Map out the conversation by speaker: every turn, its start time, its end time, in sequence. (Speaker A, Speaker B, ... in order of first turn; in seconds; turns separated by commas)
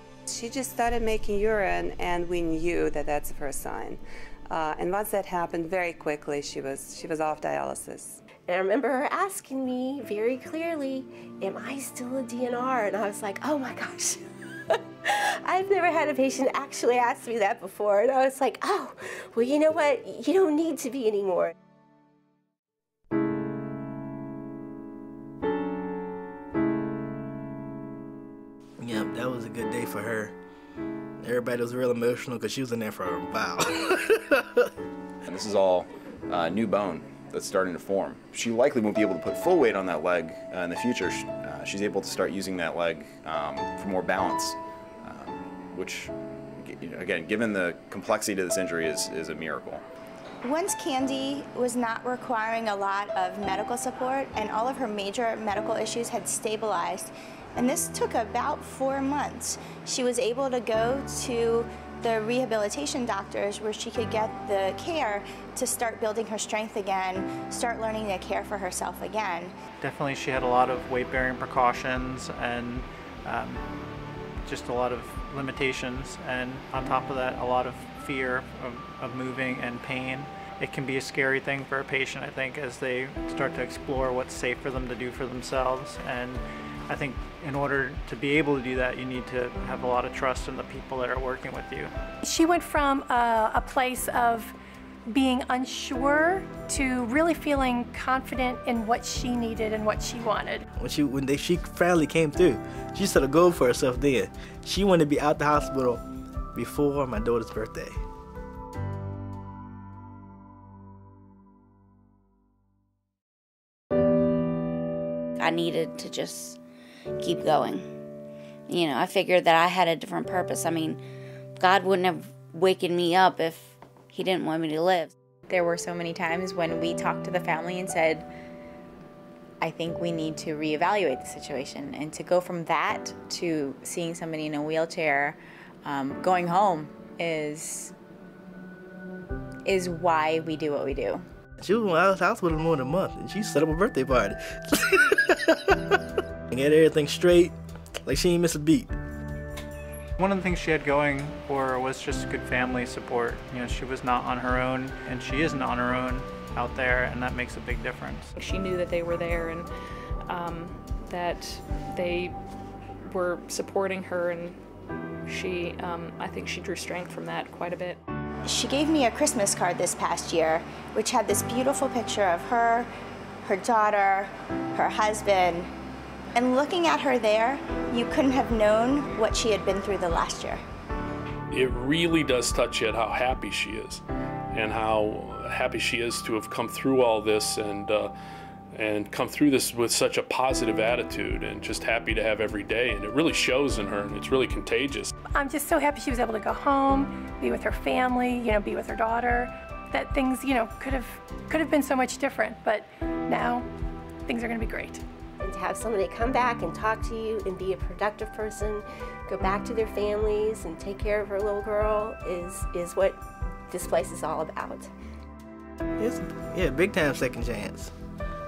Speaker A: 0.3-8.2, Speaker B: 8.5-21.5, Speaker C: 28.8-30.4, Speaker C: 31.2-34.7, Speaker D: 35.2-49.8, Speaker E: 50.5-69.5, Speaker F: 69.8-73.7, Speaker F: 74.4-91.9, Speaker G: 92.2-94.5, Speaker G: 95.1-100.6, Speaker C: 100.8-106.0, Speaker C: 106.5-108.0, Speaker H: 115.4-116.6, Speaker H: 117.2-117.9, Speaker H: 118.7-121.0, Speaker H: 121.6-125.1, Speaker I: 125.5-128.2, Speaker I: 129.6-137.9, Speaker I: 139.7-141.2, Speaker C: 141.6-145.8, Speaker C: 146.5-148.9, Speaker F: 150.2-158.3, Speaker J: 158.4-159.7, Speaker J: 160.3-162.4, Speaker J: 163.1-164.6, Speaker J: 165.3-168.0, Speaker E: 168.5-172.9, Speaker E: 173.4-175.7, Speaker E: 176.3-180.6, Speaker K: 181.5-184.0, Speaker K: 184.5-188.1, Speaker K: 188.7-195.1, Speaker G: 195.4-203.7, Speaker G: 204.3-205.0, Speaker B: 205.4-214.9, Speaker C: 216.0-217.9